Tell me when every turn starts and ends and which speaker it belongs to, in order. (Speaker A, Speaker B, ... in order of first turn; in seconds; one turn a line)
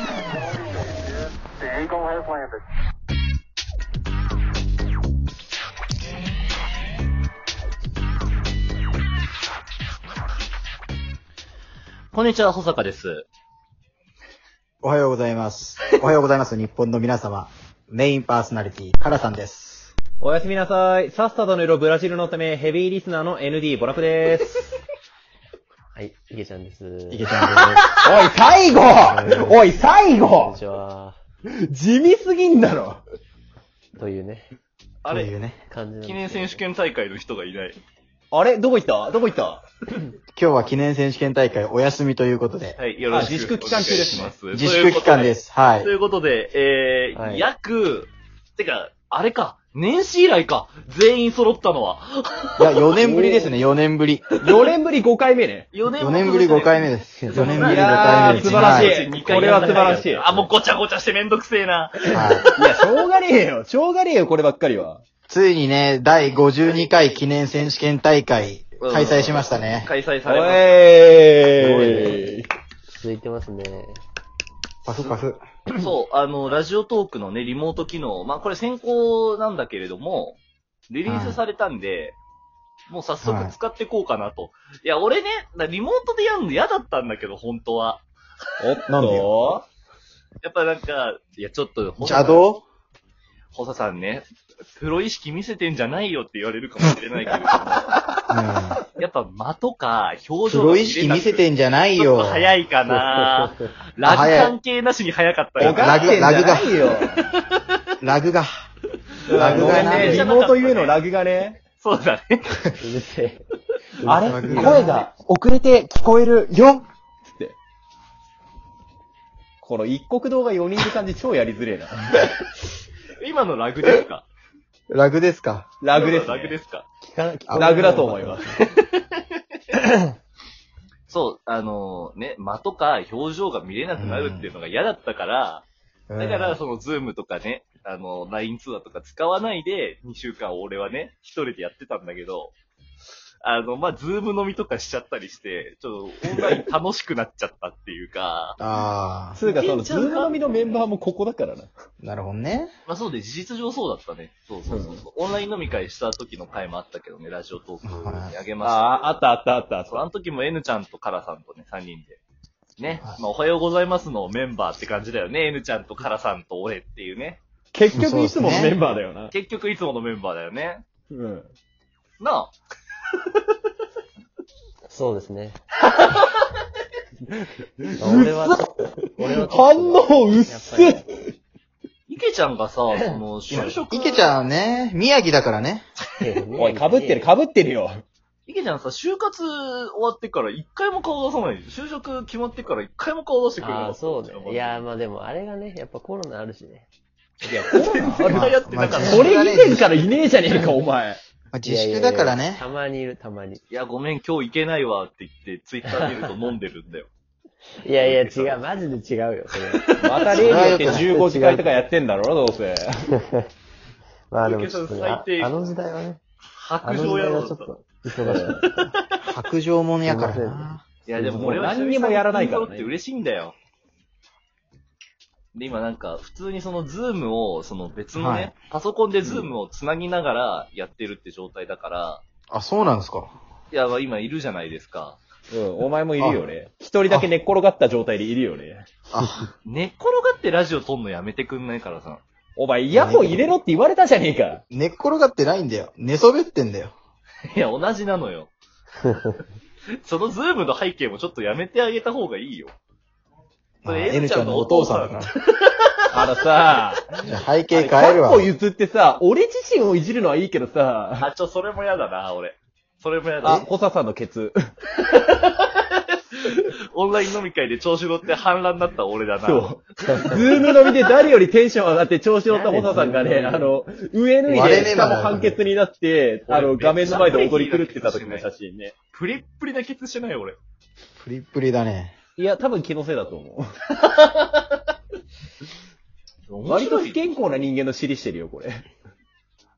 Speaker A: 12.1-13.3
Speaker B: 14.8-19.9
Speaker C: 20.2-24.7
Speaker D: 25.9-27.8
Speaker B: 27.1-27.9
Speaker C: 27.8-30.6
Speaker B: 28.9-29.6
Speaker D: 30.3-31.2
Speaker C: 31.6-33.0
Speaker D: 34.0-34.5
Speaker A: 35.0-35.3
Speaker B: 35.1-35.6
Speaker D: 35.7-36.6
Speaker A: 36.0-37.8
Speaker C: 38.3-39.6
Speaker B: 40.4-42.8
Speaker A: 42.8-52.9
Speaker C: 43.1-44.3
Speaker B: 44.5-45.9
Speaker D: 47.1-47.5
Speaker B: 52.6-54.2
Speaker C: 53.0-53.5
Speaker C: 54.4-55.7
Speaker A: 55.7-62.4
Speaker B: 56.0-59.0
Speaker C: 57.3-60.5
Speaker C: 62.1-65.0
Speaker B: 62.1-62.5
Speaker B: 65.3-69.9
Speaker A: 68.8-70.7
Speaker C: 70.2-72.5
Speaker D: 71.6-72.3
Speaker D: 72.9-74.0
Speaker B: 74.8-75.4
Speaker A: 75.7-80.4
Speaker A: 80.9-82.2
Speaker B: 81.1-81.4
Speaker A: 82.9-88.1
Speaker B: 83.2-83.5
Speaker C: 88.6-89.6
Speaker B: 88.9-89.3
Speaker A: 90.4-92.5
Speaker B: 92.0-92.7
Speaker A: 93.5-98.0
Speaker B: 98.3-98.8
Speaker A: 99.0-101.5
Speaker B: 100.5-102.5
Speaker A: 102.0-106.2
Speaker D: 102.9-103.7
Speaker B: 104.0-104.6
Speaker C: 105.6-107.3
Speaker B: 105.6-106.8
Speaker A: 107.2-107.8
Speaker B: 108.0-108.5
Speaker C: 109.3-111.6
Speaker B: 109.3-110.3
Speaker A: 109.4-111.0
Speaker D: 109.5-110.1
Speaker A: 111.8-112.7
Speaker D: 112.8-113.4
Speaker D: 114.0-115.0
Speaker C: 114.0-116.8
Speaker B: 114.2-115.1
Speaker C: 119.6-122.2
Speaker A: 123.2-124.3
Speaker B: 124.9-125.7
Speaker C: 125.8-126.5
Speaker A: 125.9-126.9
Speaker D: 127.0-128.6
Speaker B: 127.5-128.1
Speaker C: 127.6-128.5
Speaker A: 128.8-129.4
Speaker A: 131.1-135.7
Speaker B: 133.9-134.5
Speaker B: 136.1-136.6
Speaker A: 136.2-142.6
Speaker A: 143.4-148.6
Speaker B: 148.6-149.4
Speaker C: 149.3-151.7
Speaker A: 149.4-150.5
Speaker B: 152.0-152.7
Speaker A: 152.9-159.1
Speaker C: 154.7-155.0
Speaker B: 157.8-158.3
Speaker C: 158.6-160.1
Speaker A: 159.9-162.2
Speaker A: 162.8-167.4
Speaker C: 167.7-169.3
Speaker B: 167.9-168.8
Speaker A: 169.3-170.8
Speaker C: 171.1-171.5
Speaker A: 172.2-172.5
Speaker D: 174.9-175.6
Speaker C: 177.3-178.6
Speaker D: 178.0-181.1
Speaker C: 179.2-181.2
Speaker A: 182.1-184.3
Speaker D: 182.9-183.2
Speaker B: 183.5-185.9
Speaker D: 186.2-187.3
Speaker C: 186.6-188.0
Speaker A: 188.5-194.9
Speaker D: 193.6-196.9
Speaker C: 197.4-198.4
Speaker A: 197.7-199.3
Speaker B: 198.2-199.8
Speaker C: 199.0-201.2
Speaker B: 201.5-202.6
Speaker D: 201.6-203.6
Speaker A: 203.7-207.1
Speaker D: 207.8-209.9
Speaker A: 208.0-208.6
Speaker A: 209.8-210.2
Speaker C: 210.0-212.9
Speaker B: 210.3-211.1
Speaker D: 210.4-211.8
Speaker D: 213.1-213.5
Speaker D: 214.3-216.2
Speaker A: 214.4-215.7
Speaker A: 216.6-217.7
Speaker D: 216.8-218.9
Speaker C: 218.2-218.6
Speaker A: 218.3-219.2
Speaker B: 219.2-220.8
Speaker D: 220.1-220.8
Speaker A: 221.1-223.6
Speaker C: 221.2-222.9
Speaker A: 225.6-232.2
Speaker B: 228.2-228.5
Speaker B: 232.5-233.3
Speaker A: 233.7-235.2
Speaker C: 235.5-238.9
Speaker B: 236.2-236.4
Speaker B: 239.1-239.5
Speaker A: 239.7-242.2
Speaker C: 242.6-244.6
Speaker B: 242.9-243.6
Speaker B: 244.7-246.9
Speaker A: 247.5-248.5
Speaker A: 250.0-252.8
Speaker B: 253.8-255.3
Speaker A: 253.8-256.3
Speaker C: 256.1-261.3
Speaker B: 257.2-258.5
Speaker A: 261.2-263.7
Speaker C: 263.4-264.6
Speaker A: 264.9-270.8
Speaker C: 269.4-278.9
Speaker D: 270.1-270.4
Speaker D: 272.5-273.7
Speaker B: 274.5-275.6
Speaker A: 276.5-278.5
Speaker A: 279.1-280.6
Speaker B: 281.2-282.1
Speaker C: 282.4-283.7
Speaker A: 284.0-284.8
Speaker A: 286.5-287.2
Speaker C: 286.7-288.8